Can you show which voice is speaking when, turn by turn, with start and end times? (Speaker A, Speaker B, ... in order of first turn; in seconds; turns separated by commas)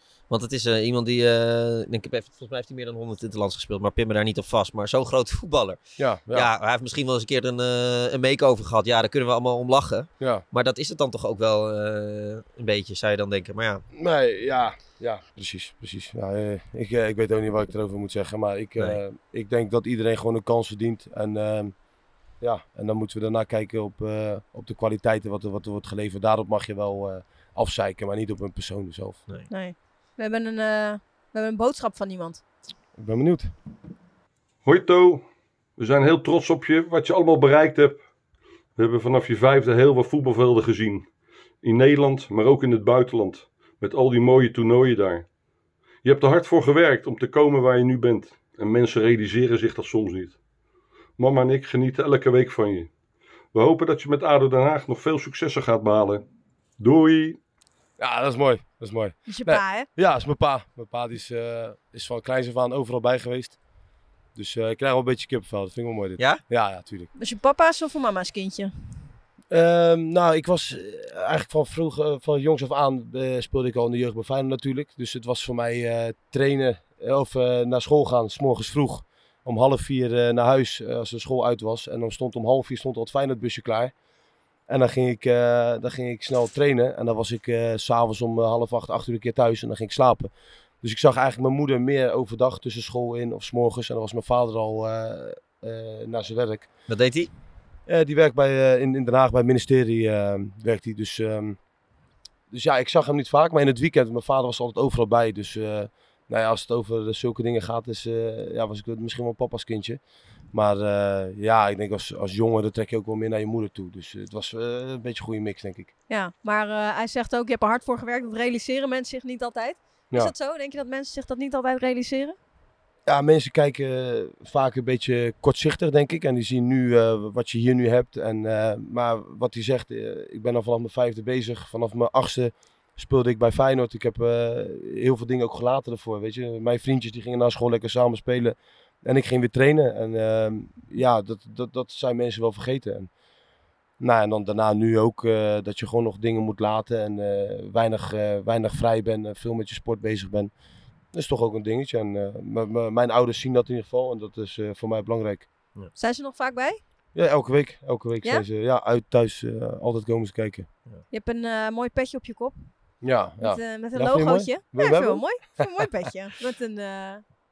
Speaker A: 0.3-5.8, Speaker B: 6.0-6.5, Speaker A: 6.3-13.8, Speaker B: 10.2-10.4, Speaker B: 13.9-21.8, Speaker B: 22.4-29.2, Speaker C: 29.5-32.4, Speaker B: 33.0-33.5, Speaker D: 34.6-35.2, Speaker D: 35.8-38.0, Speaker D: 38.8-41.1, Speaker D: 41.6-45.3, Speaker D: 46.0-50.4, Speaker D: 51.2-52.9, Speaker D: 53.5-56.2, Speaker D: 56.8-57.4, Speaker B: 58.0-63.6, Speaker C: 59.3-59.9, Speaker B: 64.4-67.1, Speaker C: 67.2-68.7, Speaker B: 69.5-83.9, Speaker B: 84.7-90.3, Speaker B: 90.8-96.7, Speaker A: 96.9-97.3, Speaker B: 97.9-101.6, Speaker B: 102.5-110.0, Speaker B: 110.5-115.9, Speaker C: 116.1-122.4, Speaker B: 123.1-143.1, Speaker B: 144.0-150.5, Speaker B: 151.1-155.5, Speaker C: 156.0-156.8, Speaker B: 157.2-160.7, Speaker C: 161.1-162.5, Speaker B: 163.0-165.7, Speaker C: 163.4-167.2